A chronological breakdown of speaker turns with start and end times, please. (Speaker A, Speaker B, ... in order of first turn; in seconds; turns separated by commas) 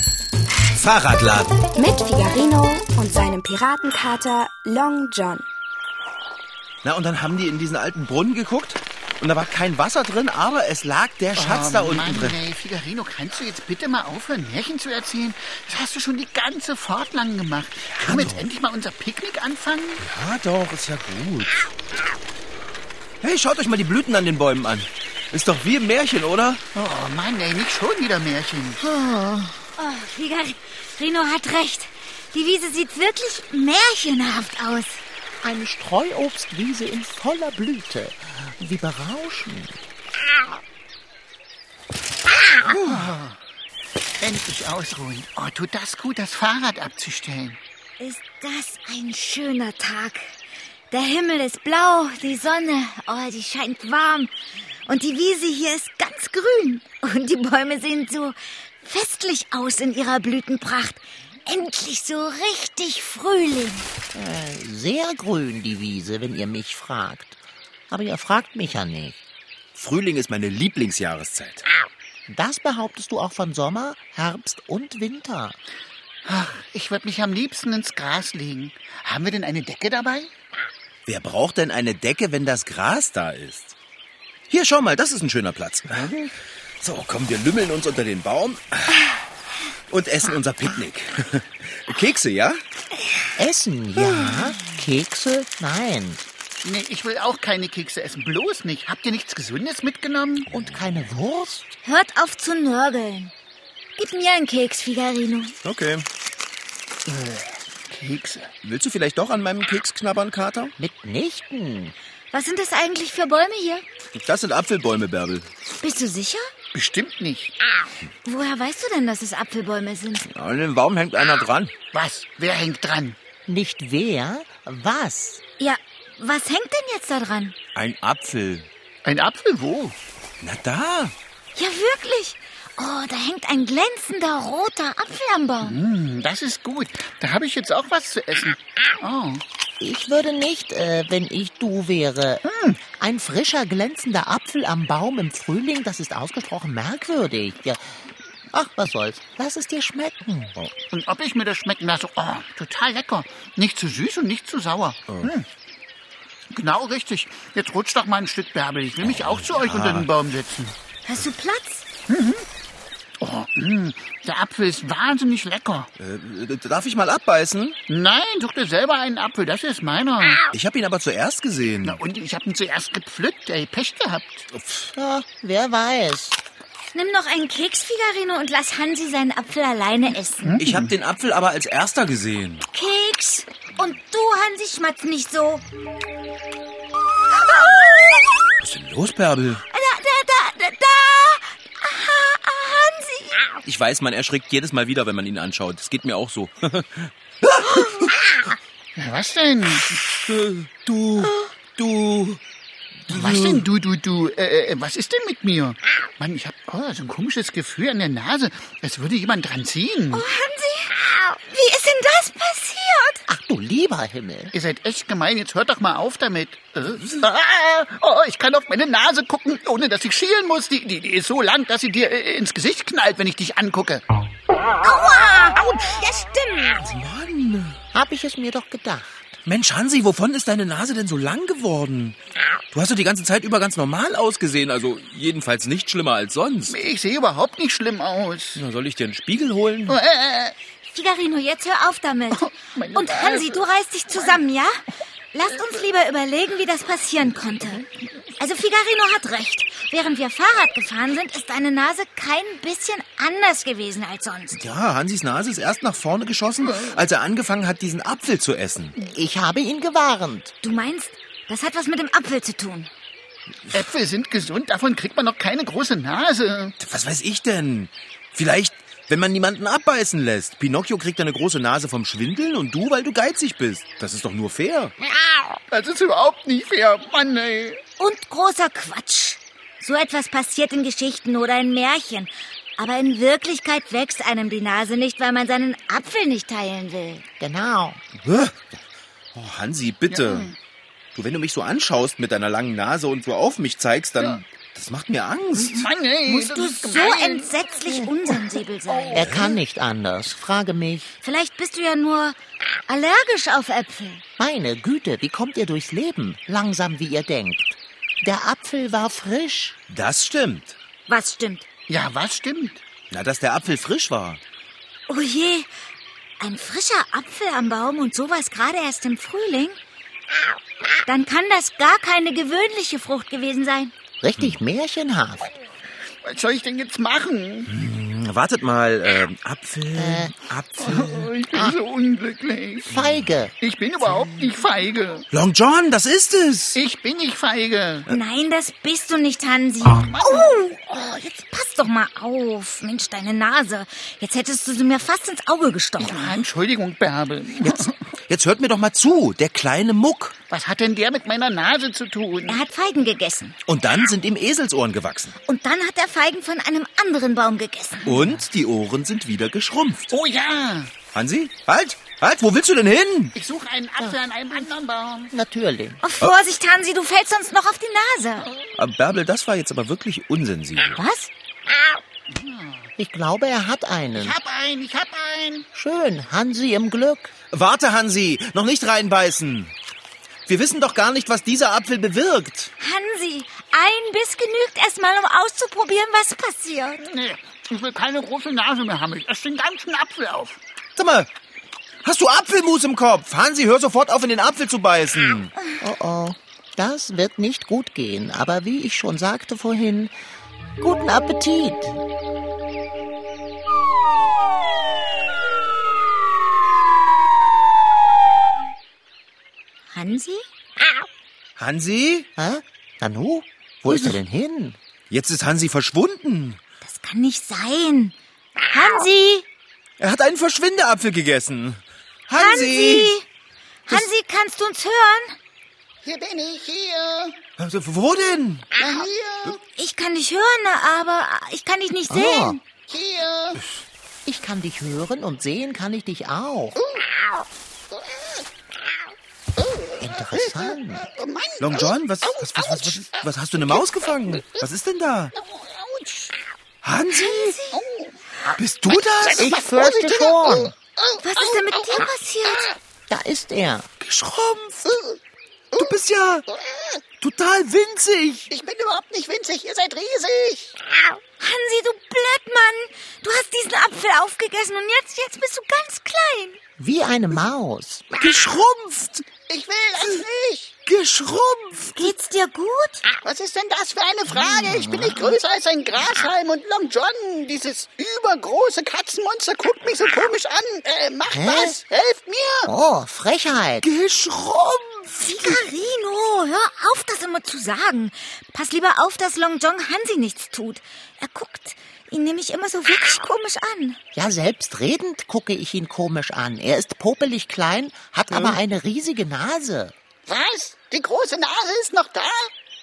Speaker A: 0.7-1.6, Speaker B: 1.8-5.5, Speaker A: 6.8-12.4, Speaker C: 11.4-20.0, Speaker A: 17.9-18.4, Speaker A: 20.0-21.6, Speaker A: 23.2-26.6, Speaker C: 26.8-28.8, Speaker D: 28.8-29.6, Speaker E: 29.8-35.0, Speaker D: 35.4-39.8, Speaker C: 42.7-43.4, Speaker C: 44.2-47.6, Speaker E: 48.0-50.3, Speaker E: 50.9-54.3, Speaker E: 54.9-63.9, Speaker D: 64.1-67.4, Speaker D: 67.9-69.2, Speaker A: 69.8-71.6, Speaker D: 72.3-75.6, Speaker C: 76.3-80.3, Speaker A: 81.1-83.8, Speaker A: 84.5-86.1, Speaker D: 85.9-86.3, Speaker A: 86.8-89.1, Speaker A: 89.9-92.6, Speaker D: 93.4-96.2, Speaker C: 96.6-100.5, Speaker D: 100.5-101.7, Speaker E: 101.8-103.3, Speaker E: 104.0-105.5, Speaker A: 105.6-106.0, Speaker C: 107.1-108.5, Speaker A: 108.6-110.7, Speaker D: 110.8-112.0, Speaker E: 112.3-113.8, Speaker A: 114.2-115.5, Speaker E: 115.8-116.5, Speaker C: 116.7-117.5, Speaker E: 118.2-120.3, Speaker A: 120.3-121.7, Speaker C: 121.9-123.2, Speaker D: 123.5-125.4, Speaker E: 125.6-127.5, Speaker A: 127.8-128.7, Speaker C: 129.1-130.0, Speaker A: 130.4-131.2, Speaker E: 131.6-135.8, Speaker C: 135.6-139.4, Speaker D: 139.8-150.6, Speaker C: 142.5-142.8, Speaker C: 150.9-155.5, Speaker C: 156.5-160.8, Speaker A: 159.0-160.1, Speaker E: 161.1-161.8, Speaker C: 162.1-162.4, Speaker C: 163.2-165.9, Speaker A: 166.0-167.8, Speaker C: 167.9-170.4, Speaker A: 170.5-172.0, Speaker C: 171.8-174.5, Speaker A: 174.5-174.9, Speaker D: 174.9-176.4, Speaker E: 176.9-180.6, Speaker C: 180.4-180.9, Speaker A: 180.6-182.7, Speaker E: 182.7-185.6, Speaker E: 187.3-188.3, Speaker A: 188.6-189.6, Speaker E: 189.7-193.6, Speaker A: 193.7-198.1, Speaker C: 199.0-200.0, Speaker A: 200.2-202.4, Speaker E: 201.2-201.5, Speaker A: 203.1-203.7, Speaker C: 203.1-210.3, Speaker E: 210.1-213.2, Speaker D: 213.3-214.5, Speaker C: 214.5-224.0, Speaker E: 224.8-226.8, Speaker A: 226.8-227.8, Speaker D: 227.9-229.4, Speaker A: 229.5-232.2, Speaker A: 232.7-236.8, Speaker C: 236.7-238.6, Speaker A: 238.6-240.0, Speaker C: 239.9-240.6, Speaker E: 240.9-244.8, Speaker C: 242.3-244.4, Speaker E: 245.3-247.8, Speaker E: 248.4-254.6, Speaker A: 254.5-259.0, Speaker D: 259.0-260.5, Speaker E: 260.6-262.9, Speaker C: 263.7-266.8, Speaker A: 266.8-274.9, Speaker C: 275.7-277.8, Speaker E: 278.0-287.2, Speaker D: 287.4-288.0, Speaker A: 288.2-288.8, Speaker A: 289.4-290.5, Speaker C: 290.1-290.5, Speaker A: 291.1-295.9, Speaker C: 295.6-297.6, Speaker E: 296.3-299.2, Speaker C: 298.9-299.5, Speaker D: 299.1-301.2, Speaker A: 299.2-299.6, Speaker E: 301.2-302.4, Speaker E: 302.9-304.2, Speaker D: 304.4-309.8, Speaker A: 309.9-310.8, Speaker E: 311.1-311.6, Speaker C: 311.9-312.8, Speaker A: 313.1-314.4, Speaker E: 315.1-315.7, Speaker E: 316.4-319.8, Speaker E: 321.1-323.9, Speaker D: 324.2-325.5, Speaker C: 326.2-327.7, Speaker A: 327.7-331.3, Speaker D: 329.9-330.3, Speaker C: 330.8-333.0, Speaker D: 331.5-331.8, Speaker D: 332.9-333.5, Speaker C: 333.6-335.3, Speaker A: 335.3-336.8, Speaker C: 336.8-338.1, Speaker E: 338.1-346.4, Speaker C: 340.0-340.6, Speaker C: 346.0-348.0, Speaker A: 347.6-350.4, Speaker C: 350.5-352.6, Speaker E: 352.5-353.6, Speaker A: 353.7-355.4, Speaker E: 355.5-358.1, Speaker A: 358.1-360.1, Speaker C: 360.1-360.9, Speaker A: 361.1-363.4, Speaker C: 363.4-365.3, Speaker D: 365.3-366.0, Speaker E: 366.0-368.5, Speaker A: 368.8-371.0, Speaker E: 370.9-371.3, Speaker C: 372.3-372.9, Speaker D: 373.0-374.4, Speaker C: 374.1-375.7, Speaker D: 375.8-377.3, Speaker A: 377.5-379.7, Speaker A: 380.5-382.7, Speaker E: 382.8-387.0, Speaker C: 387.0-390.6, Speaker A: 391.0-391.3, Speaker A: 392.0-395.5, Speaker D: 395.8-400.1, Speaker D: 400.8-402.0, Speaker E: 409.9-410.4, Speaker A: 411.6-412.3, Speaker D: 412.4-414.8, Speaker A: 415.1-416.6, Speaker E: 416.8-418.1, Speaker E: 418.7-419.4, Speaker A: 420.0-423.2, Speaker E: 422.3-423.2, Speaker E: 423.9-425.4, Speaker C: 426.0-427.4, Speaker A: 427.6-428.7, Speaker C: 428.8-429.6, Speaker E: 429.8-432.6, Speaker D: 432.1-432.6, Speaker C: 432.9-433.6, Speaker D: 434.3-436.8, Speaker C: 436.8-437.1, Speaker C: 437.9-438.4, Speaker C: 439.6-443.2, Speaker D: 440.0-441.1, Speaker A: 441.6-445.3, Speaker C: 445.4-446.4, Speaker A: 446.8-447.6, Speaker E: 447.1-447.8, Speaker C: 447.7-448.2, Speaker A: 448.6-449.5, Speaker C: 448.9-452.1, Speaker D: 449.4-450.7, Speaker E: 451.2-452.7, Speaker D: 453.1-453.9, Speaker A: 454.0-454.8, Speaker C: 454.9-455.2, Speaker A: 455.8-456.5, Speaker C: 456.5-457.0, Speaker A: 457.2-458.5, Speaker C: 458.5-460.8, Speaker E: 461.4-466.6, Speaker D: 466.8-468.1, Speaker A: 468.1-469.2, Speaker C: 469.5-470.7, Speaker A: 470.9-472.1, Speaker E: 472.0-473.1, Speaker C: 473.2-482.7, Speaker D: 474.3-475.4, Speaker D: 481.3-481.8, Speaker D: 482.7-483.9, Speaker A: 483.8-485.6, Speaker E: 485.2-494.0, Speaker D: 494.1-499.9, Speaker A: 498.3-498.6, Speaker C: 500.3-502.5